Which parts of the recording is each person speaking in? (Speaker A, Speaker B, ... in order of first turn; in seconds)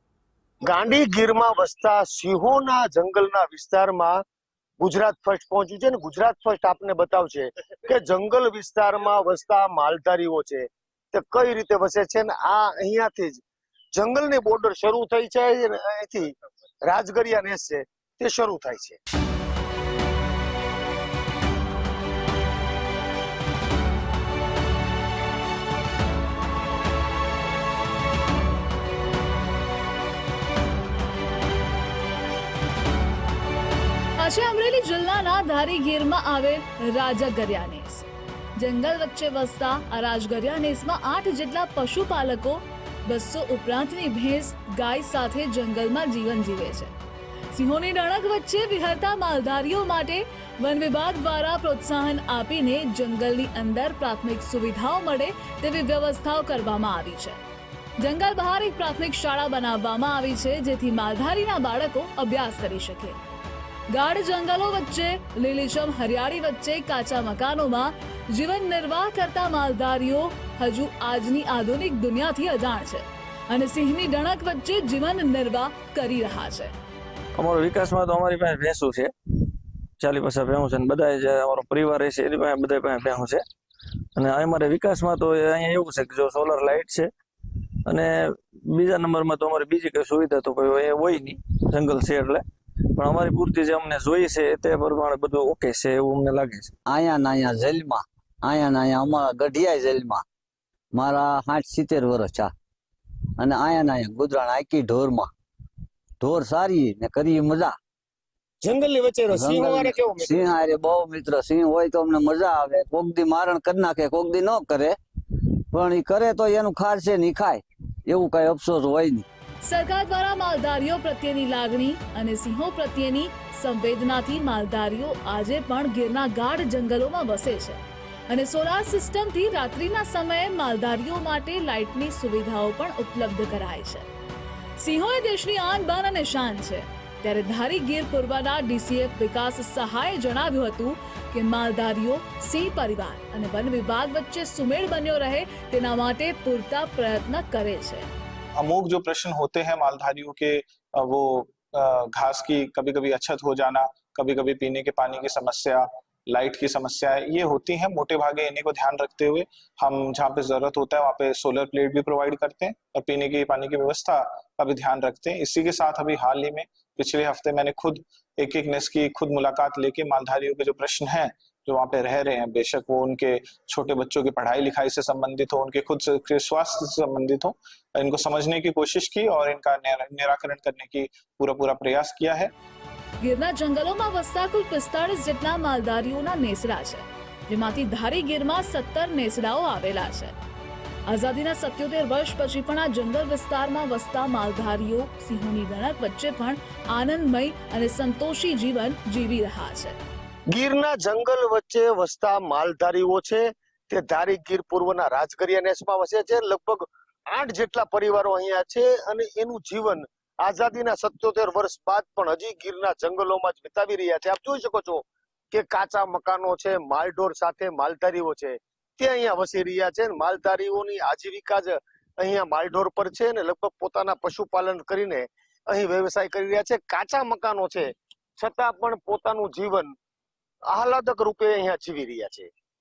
Speaker A: 0.6-4.2, 4.8-13.4, 13.9-16.3, 16.8-19.0, 108.6-110.5, 200.5-229.9, 230.7-232.5
Speaker B: 34.2-46.9, 47.5-57.4, 58.0-63.2, 63.9-76.7, 119.6-134.1, 134.8-148.1, 183.2-190.3, 191.1-200.0
Speaker C: 77.4-83.4, 84.1-96.7
Speaker D: 96.9-100.2, 100.9-102.5, 103.4-105.3, 106.2-107.8, 109.3-115.0, 115.7-119.2
Speaker E: 148.6-182.5